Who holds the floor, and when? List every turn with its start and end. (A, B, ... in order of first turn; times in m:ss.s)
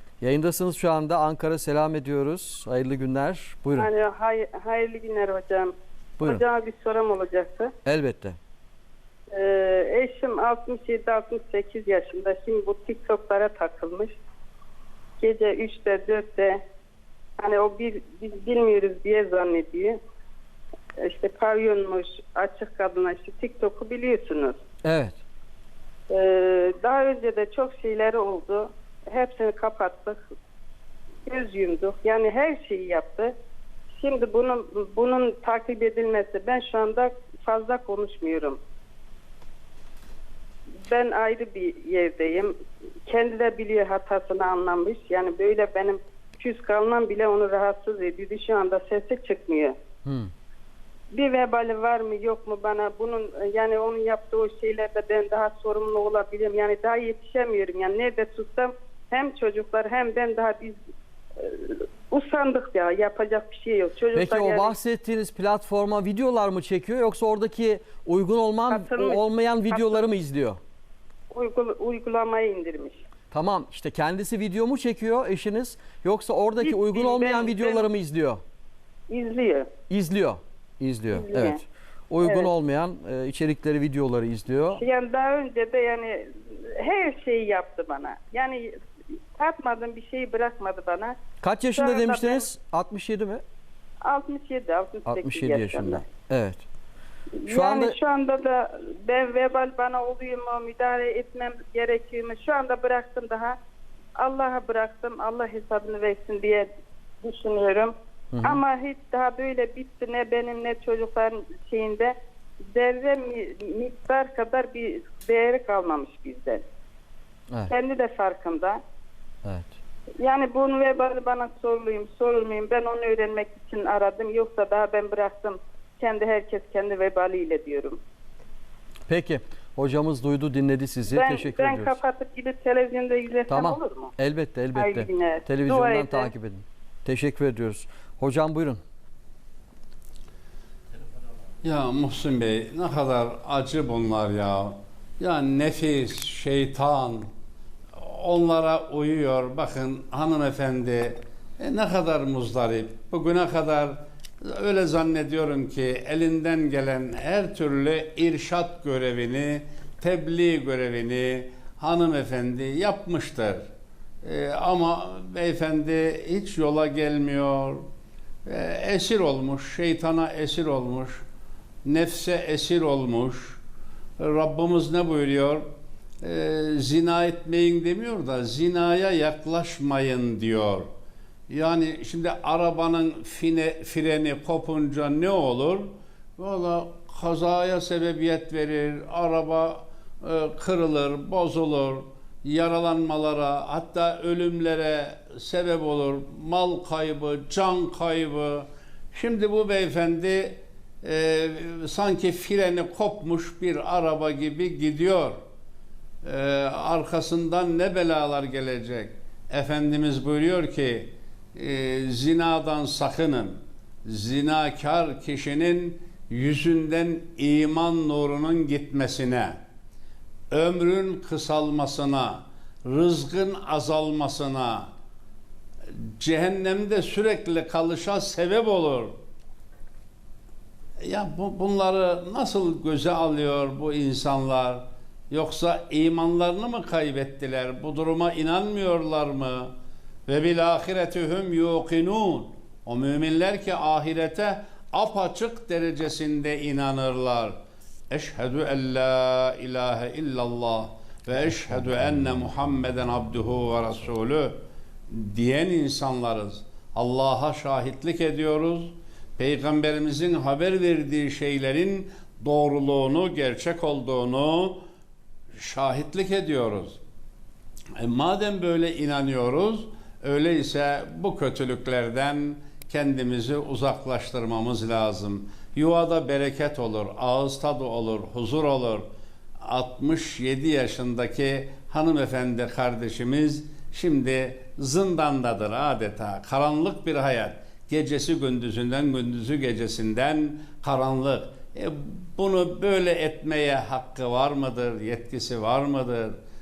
0:00.2-0:03.9 A
0:03.8-0:07.7 B
0:06.2-0:06.4 A
0:07.8-0:08.4 A
0:09.3-0:14.2 B
0:15.2-0:16.6 B
0:17.4-0:20.0 B
0:21.0-0:24.6 B
0:24.8-0:25.2 A
0:26.1-0:30.2 B
0:31.3-0:33.3 B
0:33.9-0:38.6 B
0:40.9-0:42.5 B
0:43.0-0:49.8 B
0:50.0-0:50.3 A
0:51.1-1:00.8 B
1:01.4-1:04.7 B
1:04.1-1:10.6 A
1:08.7-1:10.0 B
1:11.3-1:13.0 B
1:13.3-1:18.4 A
1:16.6-1:17.9 B
1:19.1-1:19.7 B
1:19.9-1:21.6 A
1:21.1-1:21.6 B
1:22.1-1:24.8 A
1:22.2-1:22.5 B
1:24.8-1:28.7 B
1:29.4-1:31.2 B
1:31.4-1:33.4 A
1:31.8-1:32.5 B
1:34.0-1:36.0 B
1:35.1-1:36.6 A
1:37.4-1:43.6 B
1:37.5-1:38.0 A
1:44.2-1:46.7 B
1:47.2-1:52.1 B
1:48.3-1:48.6 A
1:52.7-1:56.6 B
1:57.7-1:58.8 B
1:59.4-1:59.7 A
2:00.2-2:08.0 B
2:09.1-2:12.0 A
2:11.1-2:14.1 B
2:13.5-2:18.8 A
2:14.7-2:16.3 B
2:21.6-2:27.3 C
2:28.0-2:43.6 C
2:44.2-2:47.8 C
2:48.4-2:51.2 C
2:51.8-2:53.6 C
2:54.2-2:55.7 C
2:56.2-3:00.9 C
3:01.5-3:25.4 C
3:26.2-3:39.6 C
3:40.5-3:44.9 C
3:45.9-3:49.1 C
3:51.0-3:59.7 C
4:00.3-4:07.6 C
4:08.1-4:14.6 C
4:15.1-4:24.8 C
4:25.6-4:27.0 C
4:28.0-4:39.1 C
4:39.6-4:56.4 C